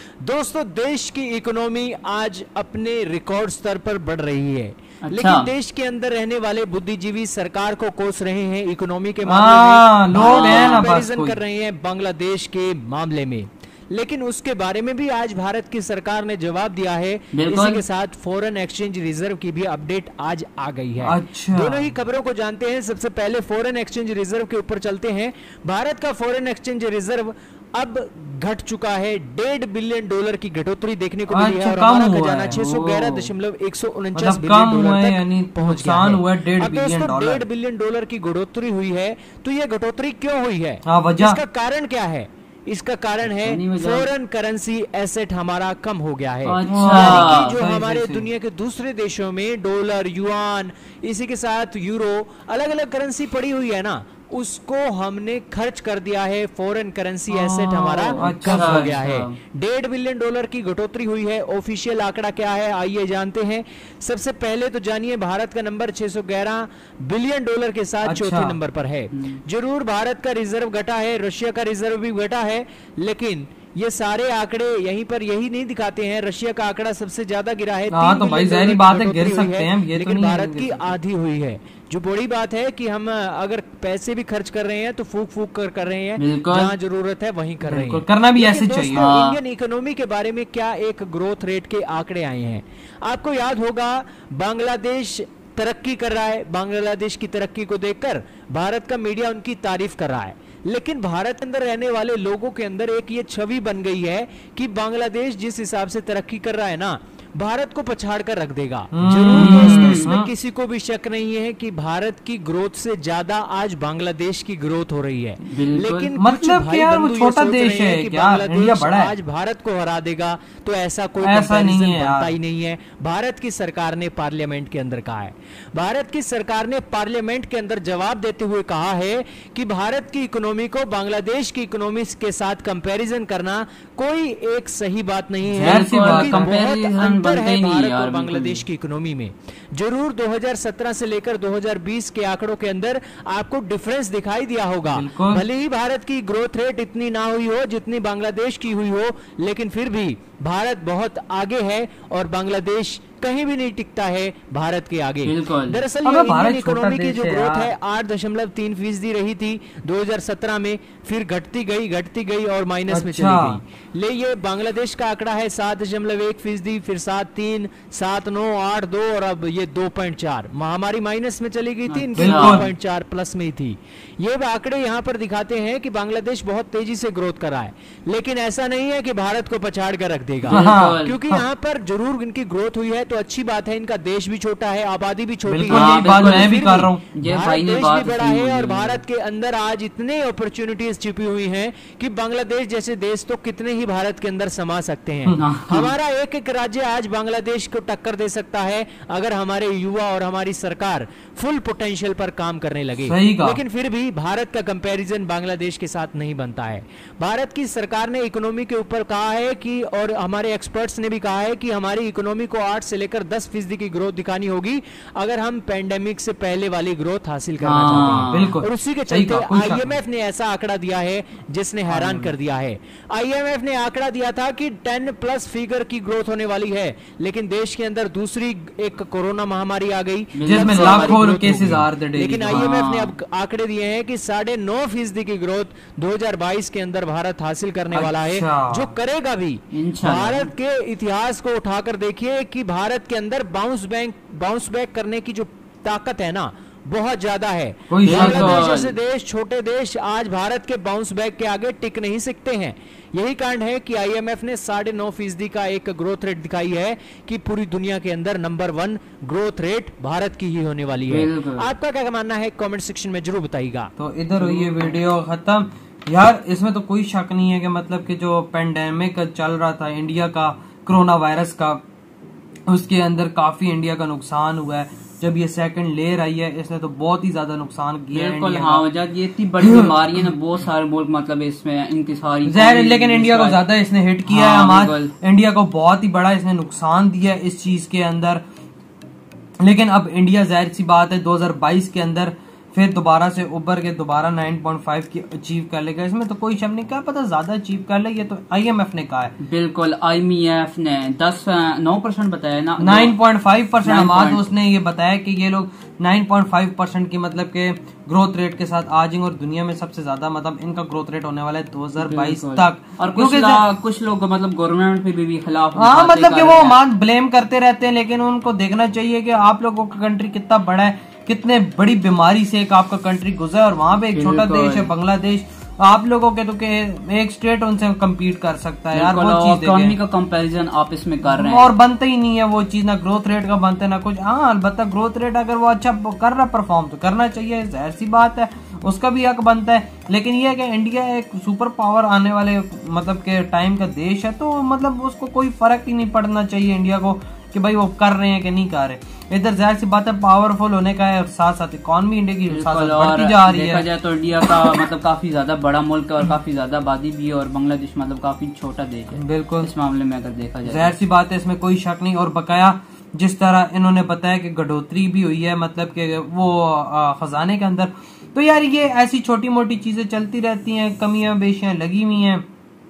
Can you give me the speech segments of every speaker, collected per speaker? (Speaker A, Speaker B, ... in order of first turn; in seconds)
Speaker A: 0.2-263.9
Speaker B: 5.0-5.5, 10.2-10.9, 17.3-17.8, 32.5-33.3, 43.2-44.1, 46.4-47.5, 58.1-59.4, 69.1-69.4, 86.2-86.7, 87.6-88.0, 88.9-89.4, 109.3-110.1, 115.4-116.1, 135.5-138.6, 155.2-155.8, 171.9-172.7, 180.5-181.2, 185.7-189.0, 195.4-195.9, 217.6-218.6, 230.3-231.2, 232.5-233.1, 239.7-240.5, 248.0-248.9, 261.1-261.7, 264.4-265.0, 278.1-283.6, 284.2-285.1, 299.4-303.2, 303.8-304.5, 312.0-316.8, 324.1-324.9, 328.9-331.7, 352.5-360.9
Speaker C: 9.2-11.4, 21.0-21.9, 31.3-32.6, 34.1-37.4, 40.9-41.4, 46.7-48.3, 57.3-59.0, 68.0-68.6, 77.9-80.9, 87.9-89.1, 108.9-110.3, 116.2-119.1, 121.2-122.3, 135.5-136.5, 144.9-145.4, 156.0-157.7, 162.9-163.6, 172.2-172.7, 180.5-181.4, 185.4-187.0, 203.0-203.6, 218.1-219.9, 221.9-222.3, 230.4-232.7, 237.9-238.9, 247.9-248.7, 264.0-271.8, 272.7-278.9, 279.6-280.2, 282.4-288.4, 289.6-299.3, 302.8-313.6, 315.8-329.9, 331.2-353.9, 359.1-359.7, 360.6-372.4